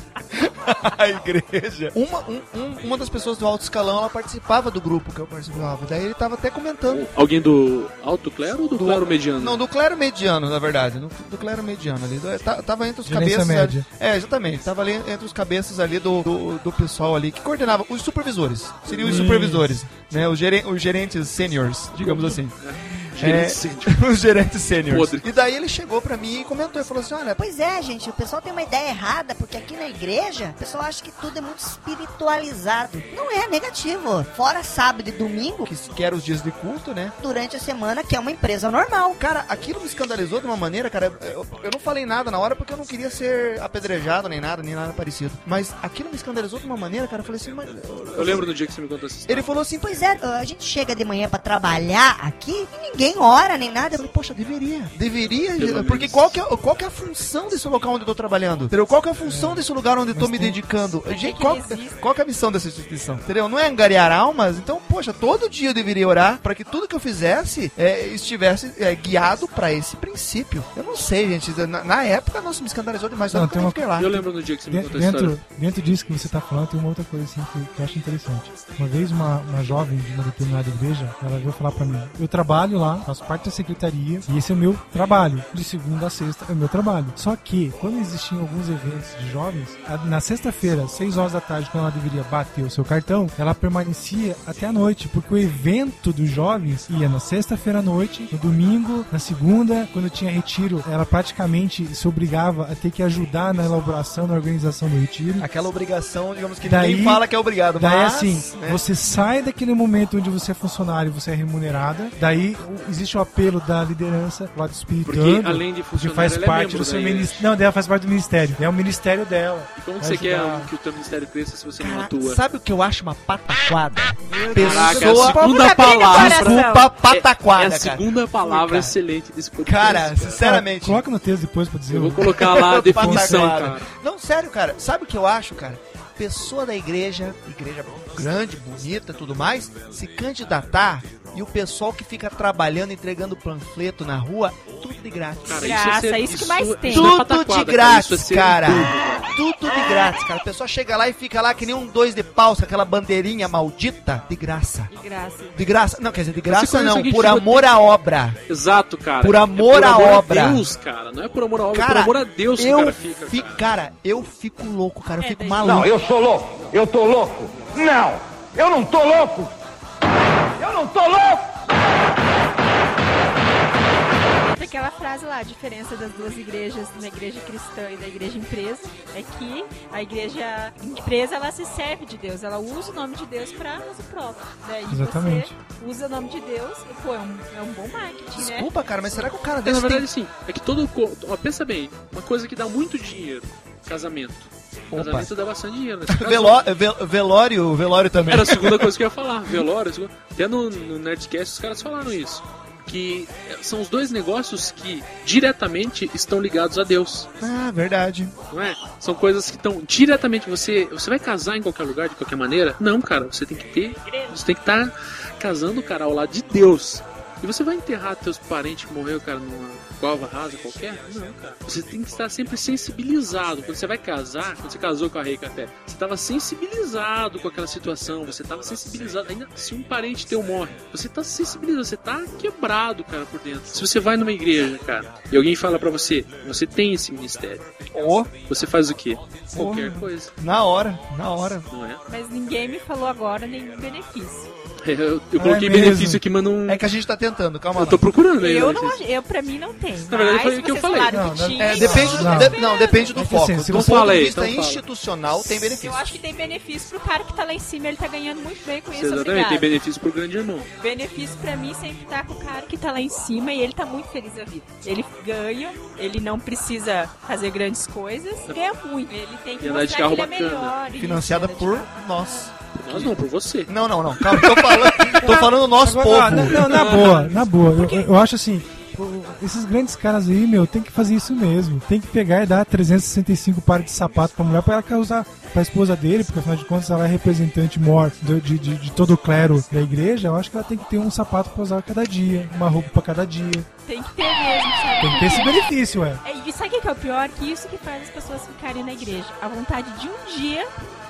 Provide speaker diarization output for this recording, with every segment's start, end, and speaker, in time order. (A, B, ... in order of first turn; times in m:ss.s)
0:00.3-0:07.1 A
0:06.9-0:09.6 B
0:08.7-0:22.6 A
0:13.0-0:13.8 C
0:18.9-0:19.3 B
0:19.0-0:19.7 C
0:22.0-0:24.0 B
0:23.2-0:27.4 A
0:24.9-0:25.2 B
0:27.4-0:35.7 D
0:35.7-0:37.2 A
0:37.2-0:39.2 D
0:39.1-0:48.5 A
0:48.1-0:49.5 B
0:49.3-0:49.9 A
0:49.8-0:54.1 D
0:54.1-1:14.2 A
0:55.6-0:56.3 B
0:59.2-1:00.6 C
1:01.0-1:02.0 E
1:13.3-1:13.8 C
1:14.0-1:15.4 B
1:14.7-1:45.5 C
1:45.4-1:48.8 A
1:46.6-1:47.2 C
1:47.8-2:00.7 C
1:55.0-1:57.4 B
1:59.8-2:02.4 B
2:01.8-2:09.0 A
2:04.5-2:06.9 E
2:04.5-2:10.4 B
2:09.6-2:11.0 A
2:10.4-2:13.6 C
2:11.9-2:13.9 B
2:12.4-2:25.8 A
2:25.4-2:29.3 B
2:25.6-2:27.1 E
2:26.9-2:34.9 A
2:34.9-2:35.6 E
2:35.5-2:38.4 A
2:36.5-2:37.8 B
2:38.5-2:43.6 B
2:39.2-2:40.6 A
2:41.7-2:45.9 A
2:45.2-2:45.8 E
2:45.6-2:49.5 F
2:50.6-2:51.4 F
2:54.5-3:08.7 E
3:04.9-3:05.6 C
3:08.3-3:10.0 A
3:09.6-3:16.6 B
3:14.9-3:15.3 A
3:16.1-3:18.9 A
3:18.3-3:27.3 B
3:27.4-3:28.3 A
3:28.5-3:57.7 B
3:57.9-3:58.3 A
3:58.4-4:00.3 B
3:59.5-4:01.7 A
4:01.7-4:02.0 B
4:02.1-4:04.5 E
4:04.8-4:06.8 B
4:05.4-4:06.2 C
4:06.7-4:08.0 A
4:07.7-4:09.0 B
4:08.4-4:13.2 E
4:10.1-4:11.1 B
4:11.1-4:12.6 C
4:11.6-4:16.1 A
4:13.2-4:14.1 C
4:13.7-4:14.8 B
4:15.4-4:19.7 E
4:18.9-4:20.7 B
4:20.8-4:32.5 E
4:29.6-4:30.8 B
4:31.0-4:33.1 A
4:32.7-4:35.2 B
4:33.7-4:36.9 A
4:35.2-4:53.7 C
4:36.6-4:37.4 B
4:37.7-4:38.1 E
4:53.8-4:55.6 E
4:55.0-4:56.2 C
4:56.2-5:00.7 E